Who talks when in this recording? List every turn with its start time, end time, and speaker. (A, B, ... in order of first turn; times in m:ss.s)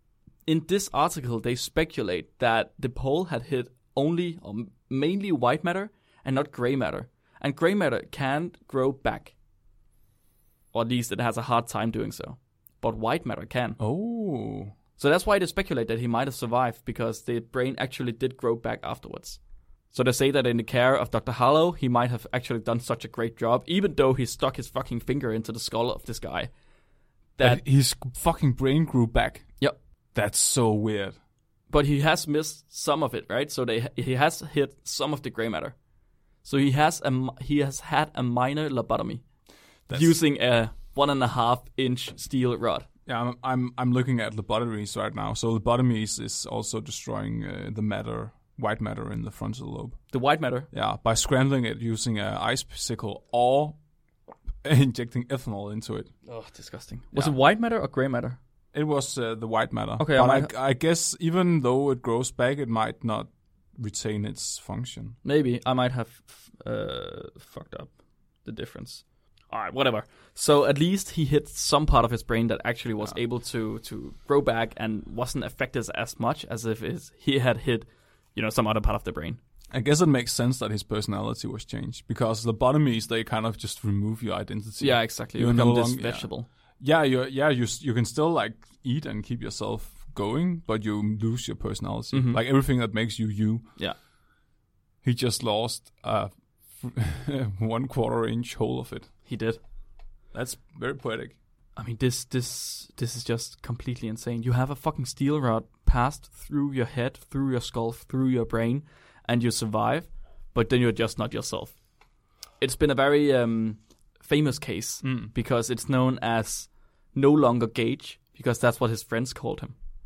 0:00.4-0:09.3 A
0:10.7-0:13.8 A
0:13.8-0:14.7 B
0:15.0-0:19.4 A
0:19.9-0:26.5 A
0:27.4-0:27.6 A
0:27.4-0:29.5 B
0:30.1-0:31.2 B
0:31.7-0:35.7 A
0:36.4-0:39.2 A
0:39.9-0:40.2 B
0:39.9-0:42.8 A
0:43.1-0:50.0 B
0:50.1-0:50.7 A
0:50.7-0:53.8 B
0:54.6-0:56.1 B
0:56.3-0:58.4 A
0:58.7-1:05.2 B
1:00.0-1:00.5 A
1:05.2-1:07.9 A
1:08.4-1:19.4 A
1:19.7-1:26.3 B
1:24.8-1:26.5 A
1:26.8-1:33.7 B
1:32.1-1:32.4 A
1:35.0-1:39.1 B
1:39.2-1:39.6 A
1:40.3-1:41.4 B
1:41.8-1:51.8 A
1:52.6-1:59.7 A
1:55.0-1:55.3 B